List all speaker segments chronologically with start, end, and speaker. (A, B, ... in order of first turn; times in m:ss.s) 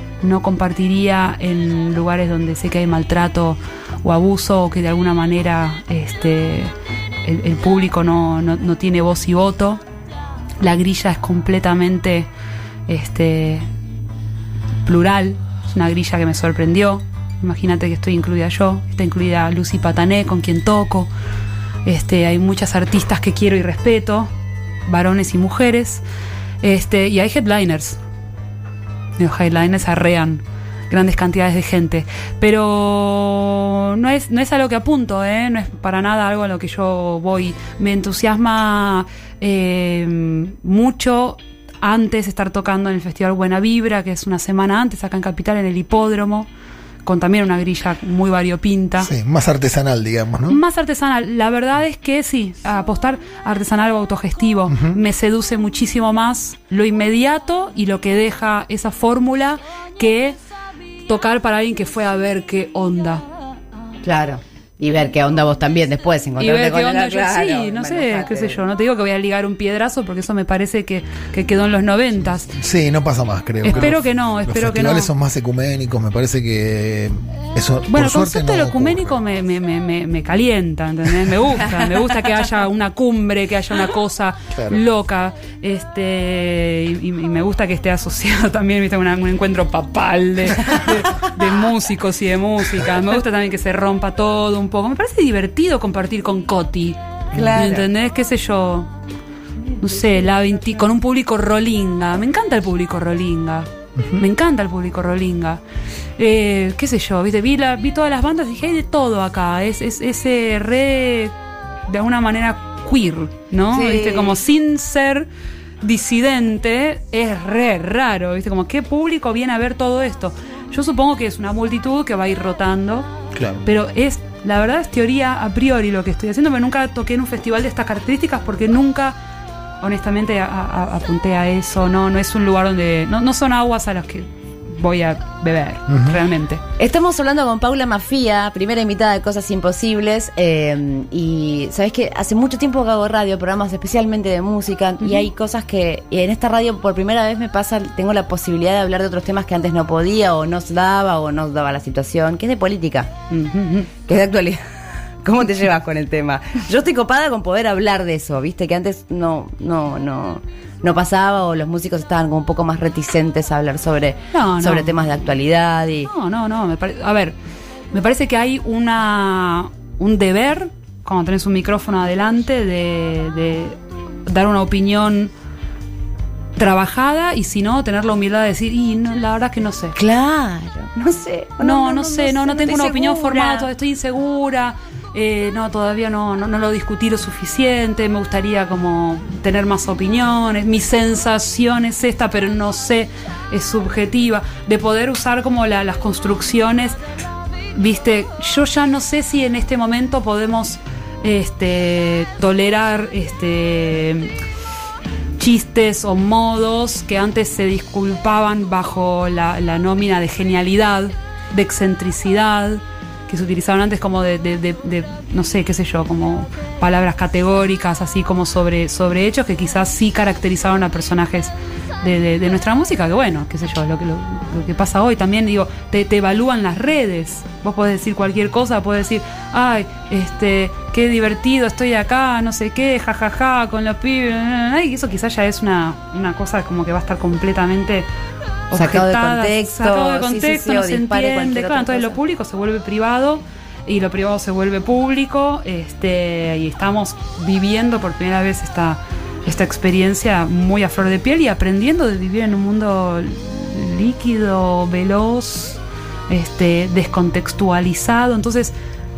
0:00.2-0:09.8 A
0:10.6-0:12.3 A
0:12.9-0:13.7 A
0:14.8-0:21.1 A
0:21.8-0:24.3 A
0:24.8-0:26.0 A
0:26.6-0:28.0 A
0:29.2-0:46.5 A
0:47.0-0:49.1 A
0:49.0-0:50.6 B
0:50.5-1:00.4 A
0:54.7-0:55.0 B
1:01.1-1:03.2 A
1:04.0-1:08.6 C
1:06.4-1:12.5 A
1:12.5-1:19.1 B
1:13.6-1:15.1 A
1:17.9-1:37.0 A
1:24.5-1:24.8 B
1:37.3-1:37.9 C
1:37.4-1:37.7 B
1:37.5-1:38.9 A
1:39.8-1:45.6 A
1:46.2-1:51.3 A
1:51.9-1:55.3 A
1:53.7-1:54.4 C
1:55.8-2:03.1 A
2:03.3-2:03.6 B
2:03.6-2:09.2 A
2:09.8-2:16.6 A
2:15.9-2:16.1 B
2:16.8-2:33.1 C
2:33.3-2:33.9 A
2:34.1-2:34.6 C
2:35.2-2:46.1 C
2:44.3-2:44.9 A
2:46.1-2:47.4 A
2:47.9-2:55.3 A
2:56.6-3:00.0 A
2:59.9-3:03.7 C
3:01.6-3:17.0 A
3:17.7-3:24.3 A
3:25.4-3:58.1 A
3:58.7-4:18.7 A
3:58.7-4:02.2 C